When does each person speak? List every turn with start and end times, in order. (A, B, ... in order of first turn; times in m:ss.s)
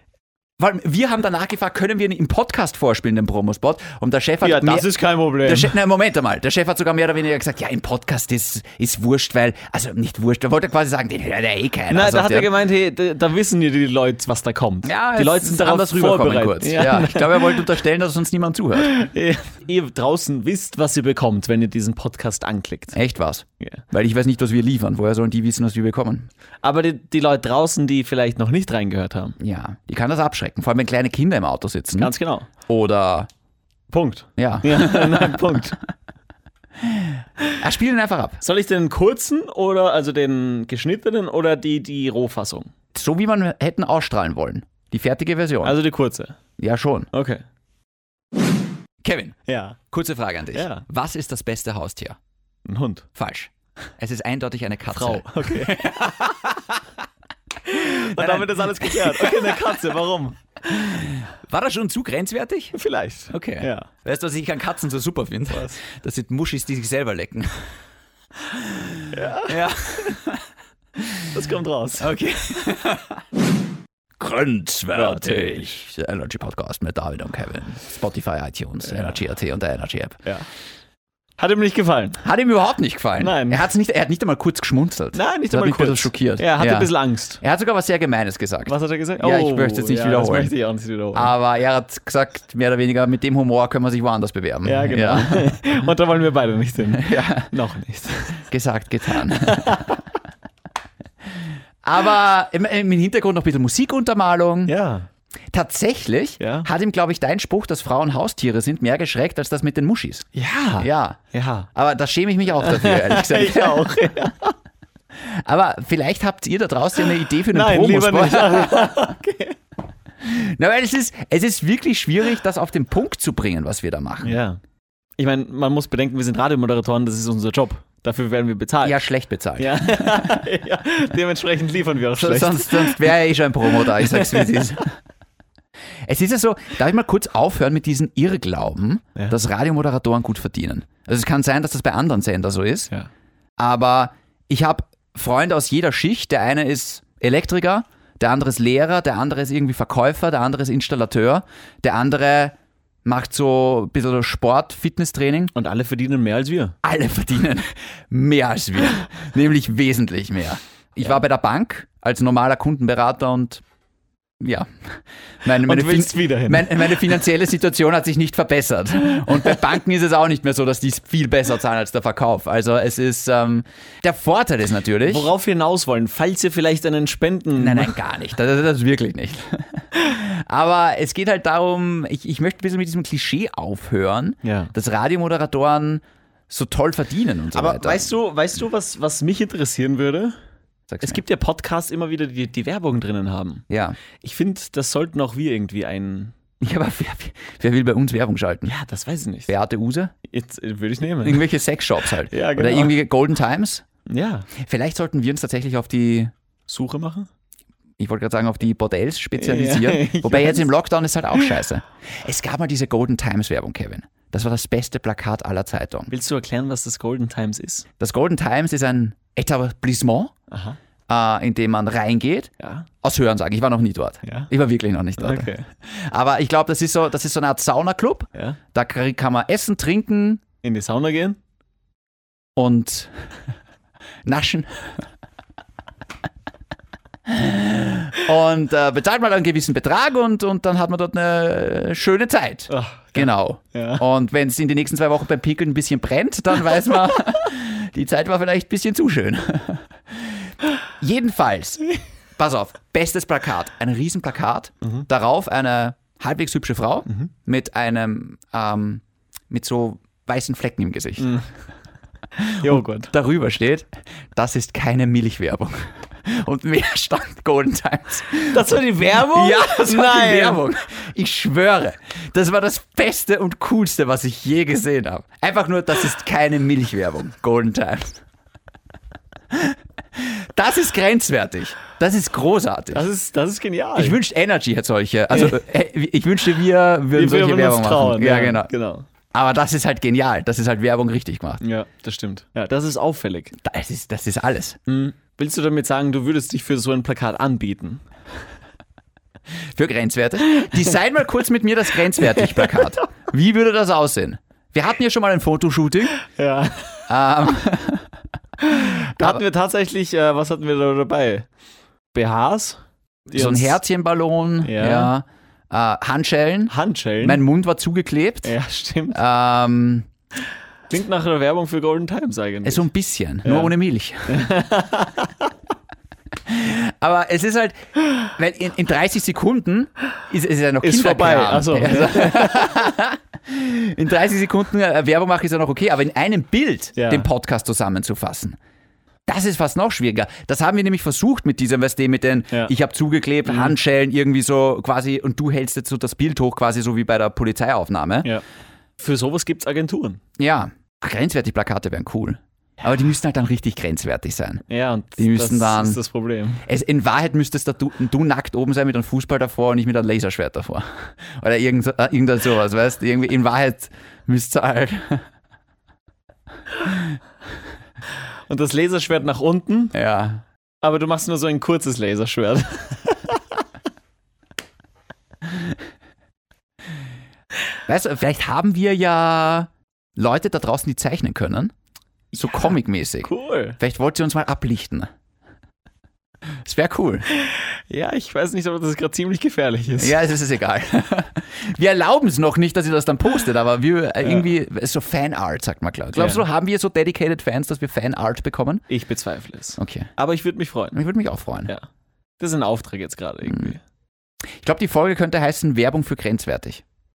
0:00.6-0:04.9 A
0:04.4-0:05.8 B
0:05.4-0:12.5 A
0:11.9-0:17.6 B
0:14.8-0:19.0 A
0:18.8-0:23.0 B
0:22.9-0:26.3 A
0:26.6-0:29.4 B
0:29.4-0:32.1 A
0:32.0-0:32.5 B
0:32.7-0:33.3 A
0:33.9-0:35.8 B
0:34.4-0:35.4 A
0:37.6-0:38.4 A
0:38.4-0:42.7 B
0:42.9-0:45.8 A
0:45.6-0:46.4 B
0:46.6-0:47.1 A
0:47.1-0:47.4 B
0:49.0-0:49.4 A
0:49.5-0:49.8 B
0:49.9-0:52.2 A
0:50.5-0:50.8 B
0:52.6-0:53.1 B
0:53.2-0:56.8 A
0:54.9-0:56.2 B
0:57.7-1:00.9 B
0:57.8-0:59.6 A
1:00.9-1:02.8 A
1:02.7-1:03.9 B
1:03.3-1:07.7 A
1:05.5-1:05.8 B
1:08.8-1:10.4 A
1:09.1-1:10.1 B
1:11.0-1:11.3 A
1:11.3-1:12.1 B
1:12.0-1:13.2 A
1:14.2-1:20.2 A
1:15.0-1:15.8 B
1:18.8-1:19.2 B
1:21.4-1:22.2 B
1:22.2-1:30.5 A
1:23.2-1:23.6 B
1:25.1-1:27.4 B
1:28.7-1:31.3 B
1:31.1-1:35.6 A
1:34.7-1:38.5 B
1:37.0-1:37.5 A
1:38.5-1:39.8 A
1:39.3-1:40.0 B
1:41.8-1:44.7 A
1:44.7-1:45.1 B
1:45.5-1:50.3 A
1:46.4-1:46.7 B
1:50.3-1:51.7 B
1:50.8-1:51.2 A
1:51.8-1:53.9 A
1:52.6-1:54.5 B
1:55.2-1:59.0 A
1:57.5-1:59.6 B
2:00.2-2:04.4 A
2:04.2-2:04.6 B
2:05.2-2:09.0 B
2:08.8-2:10.4 A
2:09.6-2:13.1 B
2:12.2-2:14.9 A
2:13.8-2:14.7 B
2:16.1-2:22.9 A
2:23.6-2:32.5 A
2:33.0-2:35.5 A
2:35.5-2:36.8 B
2:36.8-2:43.6 A
2:44.4-2:55.3 A
2:45.6-2:47.1 B
2:55.0-2:57.9 B
2:57.6-3:08.1 A
3:04.4-3:04.7 B
3:07.6-3:10.4 B
3:10.9-3:11.2 A
3:11.0-3:13.7 B
3:13.7-3:14.0 A
3:14.2-3:16.3 B
3:16.6-3:18.7 A
3:18.7-3:19.5 B
3:19.5-3:20.1 A
3:20.3-3:21.4 B
3:21.2-3:23.8 A
3:22.3-3:23.0 B
3:24.1-3:24.5 B
3:24.6-3:26.3 A
3:26.7-3:27.3 B
3:28.0-3:36.1 A
3:29.4-3:30.7 B
3:36.1-3:37.9 B
3:38.0-3:40.3 A
3:40.5-3:40.8 B
3:41.1-3:42.5 A
3:42.6-3:42.9 B
3:43.0-3:50.4 A
3:44.2-3:44.5 B
3:45.2-3:45.7 B
3:50.6-3:51.4 B
3:52.6-3:53.2 A
3:54.2-3:54.9 A
3:57.3-4:10.4 A
4:02.7-4:04.0 B
4:11.0-4:21.3 A
4:21.2-4:21.4 B
4:22.5-4:38.2 A
4:22.6-4:23.1 B
4:28.5-4:30.6 B
4:39.5-4:43.1 A
4:42.9-4:44.2 B
4:44.0-4:48.7 A
4:45.3-4:45.6 B
4:47.2-4:49.0 B
4:49.3-4:51.6 A
4:51.6-4:53.6 B
4:53.6-4:54.8 A
4:54.9-4:58.0 B
4:59.7-5:06.2 A
5:02.4-5:02.9 B
5:06.2-5:07.1 B
5:07.1-5:08.1 A
5:08.6-5:11.5 B
5:09.1-5:09.4 A
5:12.1-5:13.8 B
5:13.4-5:18.5 A
5:14.6-5:15.1 B
5:16.7-5:17.4 B
5:18.4-5:19.2 B
5:19.1-5:20.1 A
5:20.9-5:22.9 B
5:22.6-5:24.4 A
5:23.4-5:23.7 B
5:24.3-5:25.5 B
5:26.5-5:38.6 A
5:30.8-5:32.7 B
5:37.0-5:37.3 B
5:39.3-5:48.3 A
5:43.5-5:43.8 B
5:49.0-5:50.2 B
5:50.4-5:54.6 A
5:54.7-5:56.6 B
5:55.2-5:56.0 A
5:56.6-6:05.2 A
6:08.5-6:10.0 B
6:09.9-6:10.4 A
6:10.8-6:13.4 B
6:17.9-6:21.7 A
6:22.4-6:22.7 B
6:22.4-6:25.1 A
6:23.2-6:23.8 B
6:26.6-6:27.3 A
6:27.4-6:30.2 B
6:30.0-6:38.8 A
6:36.2-6:36.4 B
6:38.9-6:41.0 B
6:39.8-6:40.1 A
6:40.9-6:41.7 A
6:42.4-6:43.8 B
6:43.5-6:43.7 A
6:44.6-6:46.8 A